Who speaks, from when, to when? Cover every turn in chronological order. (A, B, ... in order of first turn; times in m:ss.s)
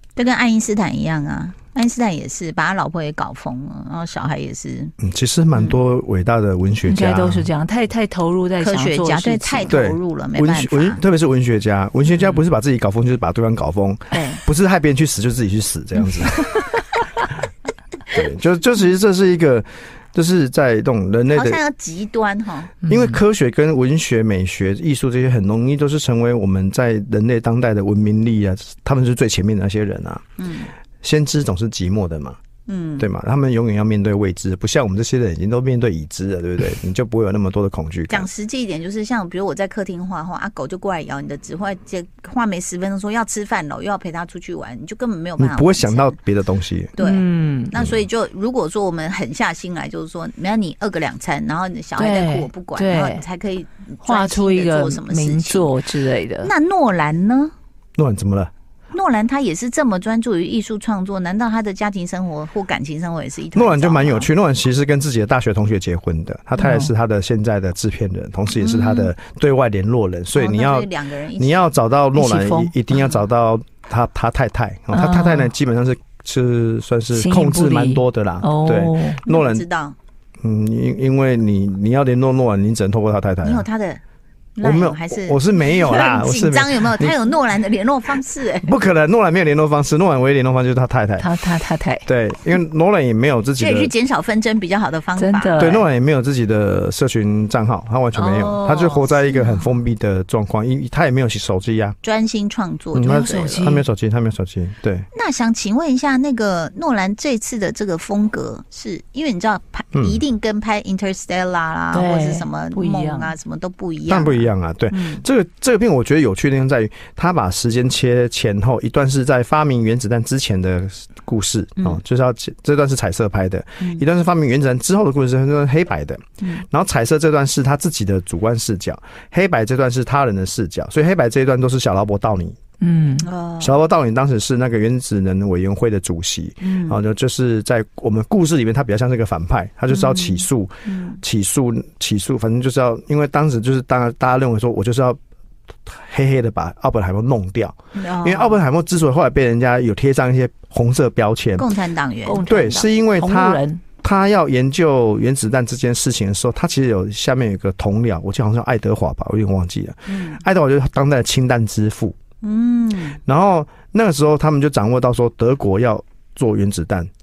0:00.2-0:04.9 A
0:05.0-0:07.5 B
0:06.8-0:09.7 C
0:08.6-0:11.0 A
0:09.7-0:16.7 B
0:14.1-0:14.4 A
0:18.1-0:21.6 B
0:21.3-0:22.7 A
0:22.8-0:23.2 C
0:22.8-0:30.2 B
0:30.4-0:30.7 A
0:31.0-0:32.4 B
0:32.7-0:33.1 A
0:33.0-0:38.3 B
0:38.1-0:46.2 A
0:45.4-0:46.9 B
0:47.0-0:55.7 A
0:47.0-0:47.7 C
0:52.0-0:53.2 C
0:54.0-0:56.5 C
0:56.4-0:57.5 A
0:58.0-0:58.5 B
0:58.9-1:04.3 A
1:03.5-1:19.6 B
1:06.6-1:06.9 C
1:08.6-1:09.1 A
1:10.3-1:11.7 A
1:12.2-1:12.7 C
1:14.9-1:15.5 C
1:17.1-1:19.2 C
1:19.3-1:20.0 A
1:20.4-1:23.6 B
1:23.4-1:24.0 A
1:24.6-1:28.7 A
1:24.6-1:27.1 B
1:28.6-1:31.3 B
1:31.2-1:32.0 C
1:32.0-1:33.9 B
1:33.6-1:35.8 A
1:35.2-1:35.8 C
1:35.6-1:42.0 B
1:38.2-1:39.0 C
1:39.3-1:39.6 A
1:42.0-1:43.7 A
1:42.9-1:45.1 B
1:43.0-1:43.8 C
1:45.1-1:55.2 A
1:49.9-1:50.2 B
1:51.9-1:53.3 C
1:54.1-2:12.6 B
2:12.8-2:13.3 C
2:13.2-2:13.7 A
2:13.6-2:25.2 B
2:16.6-2:17.0 A
2:19.9-2:21.2 A
2:25.8-2:31.7 B
2:27.9-2:28.6 A
2:31.6-2:32.4 A
2:32.2-2:33.8 C
2:32.4-2:42.2 B
2:40.1-2:40.4 A
2:42.4-2:43.2 A
2:43.2-2:47.1 B